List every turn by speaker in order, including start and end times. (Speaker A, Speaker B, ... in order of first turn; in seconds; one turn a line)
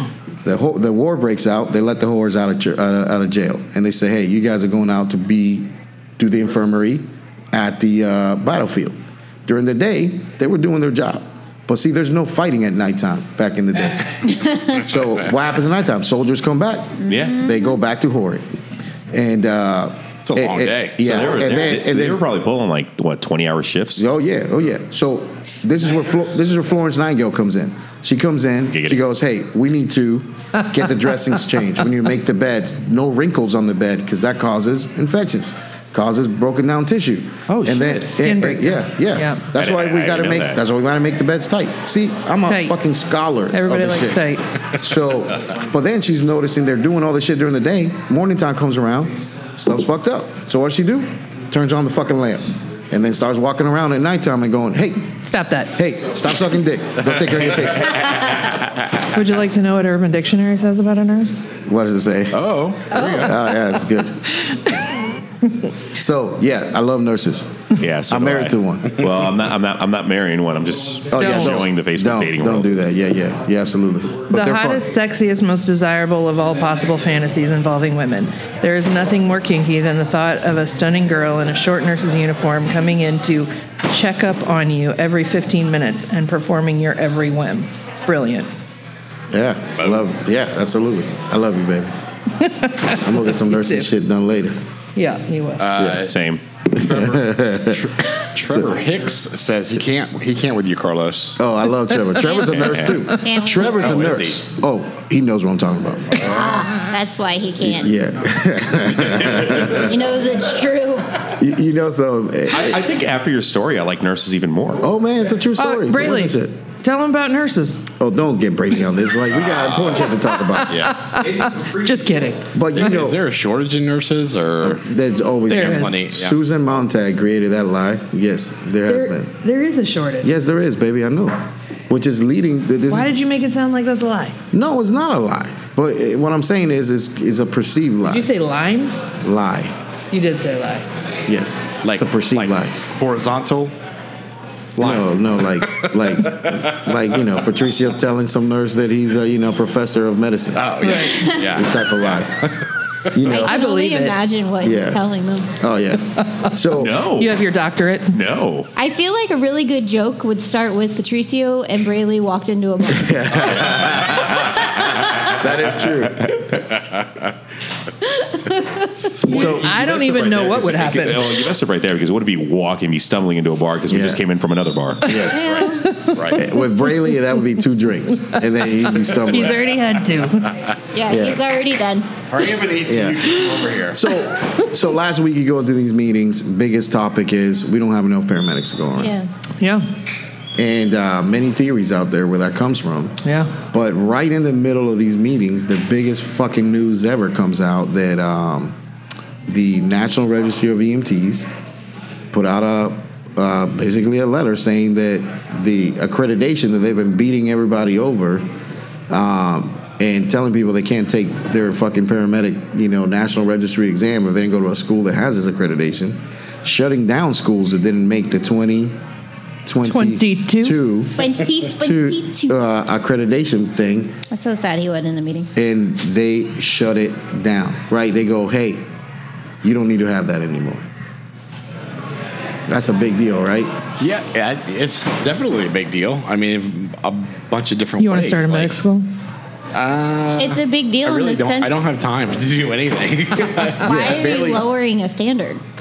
Speaker A: 0.4-18.4
Speaker B: 14.4-14.7
Speaker C: 17.1-17.4
Speaker A: 19.1-22.2
Speaker D: 20.2-21.2
Speaker C: 21.0-24.1
Speaker A: 23.9-44.2
Speaker C: 28.7-29.0
Speaker E: 38.0-39.4
Speaker C: 39.5-40.6
Speaker E: 42.5-42.8
Speaker E: 43.5-44.5
Speaker A: 44.8-55.1
Speaker E: 55.2-55.7
Speaker A: 55.7-58.3
Speaker E: 59.1-61.5
Speaker A: 61.6-64.2
Speaker D: 62.3-63.4
Speaker B: 62.9-63.3
Speaker A: 65.9-69.0
Speaker C: 67.8-72.7
Speaker A: 71.1-74.9
Speaker E: 71.1-71.6
Speaker E: 74.3-88.5
Speaker A: 89.3-91.9
Speaker E: 92.4-93.9
Speaker A: 92.9-94.6
Speaker E: 95.0-95.7
Speaker D: 95.6-96.2
Speaker A: 95.8-96.1
Speaker C: 95.9-96.4
Speaker A: 96.7-98.7
Speaker D: 96.7-101.4
Speaker A: 101.4-106.3
Speaker C: 102.6-102.9
Speaker B: 103.2-104.0
Speaker D: 103.7-104.4
Speaker B: 106.2-107.9
Speaker A: 107.6-109.9
Speaker B: 109.7-111.2
Speaker A: 111.3-112.8
Speaker C: 112.5-114.8
Speaker A: 114.8-116.6
Speaker E: 115.6-117.8
Speaker A: 118.0-120.9
Speaker D: 119.5-120.0
Speaker E: 120.3-122.4
Speaker D: 120.7-121.0
Speaker A: 122.5-123.2
Speaker D: 122.7-124.8
Speaker A: 124.6-129.3
Speaker D: 125.5-126.4
Speaker E: 125.5-125.9
Speaker E: 128.9-130.3
Speaker A: 130.2-133.1
Speaker E: 132.9-134.4
Speaker A: 134.5-138.2
Speaker E: 138.1-138.9
Speaker A: 139.2-139.7
Speaker E: 140.1-140.9
Speaker A: 141.3-142.8
Speaker D: 141.8-143.7
Speaker A: 144.8-152.5
Speaker D: 144.8-145.1
Speaker D: 145.7-146.7
Speaker D: 150.5-152.6
Speaker E: 150.8-151.2
Speaker B: 151.1-151.4
Speaker A: 153.1-153.5
Speaker B: 153.2-155.5
Speaker E: 153.4-154.2
Speaker A: 154.6-155.0
Speaker A: 155.5-157.0
Speaker C: 156.7-157.4
Speaker E: 157.1-158.2
Speaker C: 158.1-158.7
Speaker B: 158.8-163.5
Speaker A: 162.9-166.4
Speaker D: 166.8-167.3
Speaker B: 168.4-168.7
Speaker A: 169.2-170.9
Speaker E: 169.2-171.3
Speaker C: 169.3-169.8
Speaker C: 170.6-175.2
Speaker A: 173.9-174.2
Speaker A: 175.0-175.6
Speaker B: 175.3-176.0
Speaker D: 175.3-176.4
Speaker E: 175.8-176.2
Speaker A: 176.3-179.6
Speaker E: 179.2-180.6
Speaker B: 180.9-182.1
Speaker A: 181.1-181.4
Speaker D: 182.3-184.0
Speaker A: 182.8-183.4
Speaker A: 183.9-189.2
Speaker B: 189.0-189.3
Speaker E: 189.6-189.9
Speaker A: 190.6-198.8
Speaker E: 193.2-193.5
Speaker A: 199.5-201.5
Speaker A: 202.3-208.5
Speaker A: 209.1-219.0
Speaker A: 219.7-224.2
Speaker E: 219.8-220.8
Speaker B: 221.2-222.6
Speaker B: 224.3-225.5
Speaker A: 225.5-228.8
Speaker A: 229.6-230.8
Speaker A: 232.7-233.7
Speaker D: 234.0-238.8
Speaker E: 238.0-239.1
Speaker D: 239.7-244.1
Speaker B: 240.4-241.8
Speaker B: 243.8-245.6
Speaker A: 243.8-244.6